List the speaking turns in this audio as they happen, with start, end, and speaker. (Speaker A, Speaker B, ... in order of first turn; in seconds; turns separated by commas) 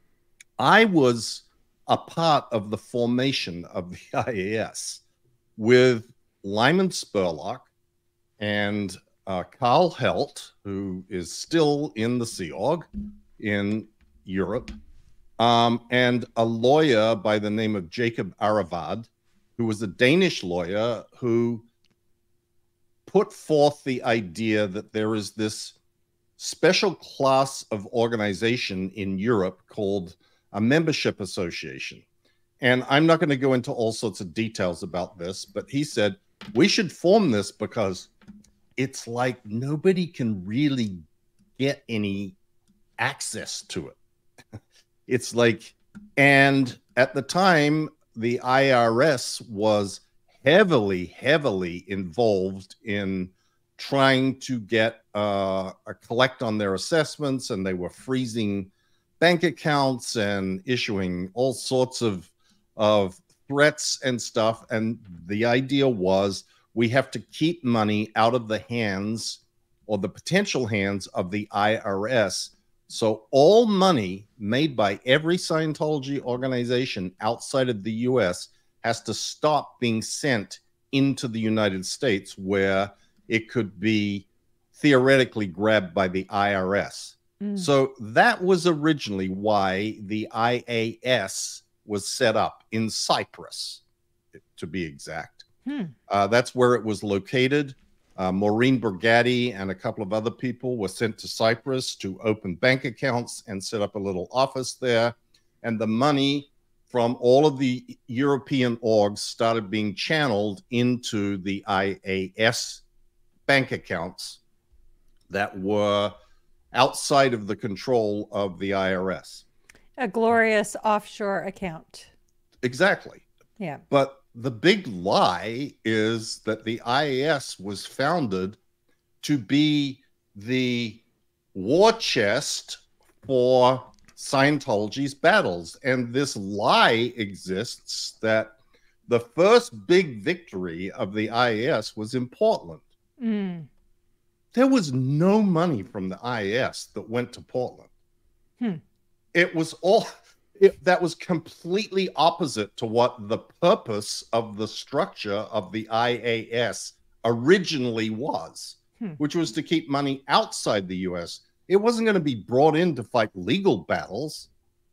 Speaker A: 0.6-5.0, Speaker A: 5.6-7.7, Speaker A: 8.4-12.9, Speaker A: 13.4-14.7, Speaker A: 15.4-21.7, Speaker A: 23.1-25.8, Speaker A: 26.4-32.0, Speaker A: 32.6-38.1, Speaker A: 38.8-41.0, Speaker A: 41.6-42.4, Speaker A: 43.0-44.0, Speaker A: 45.1-93.8, Speaker B: 87.4-87.7, Speaker A: 94.3-95.5, Speaker B: 95.7-95.9, Speaker A: 96.1-112.8, Speaker A: 113.5-114.4, Speaker A: 115.3-116.2, Speaker A: 116.7-119.4, Speaker B: 120.0-122.1, Speaker A: 122.6-123.2, Speaker A: 123.9-128.6, Speaker A: 129.2-131.0, Speaker A: 131.5-138.6, Speaker A: 139.1-142.8, Speaker B: 143.2-143.7, Speaker A: 144.5-147.9, Speaker A: 149.3-164.5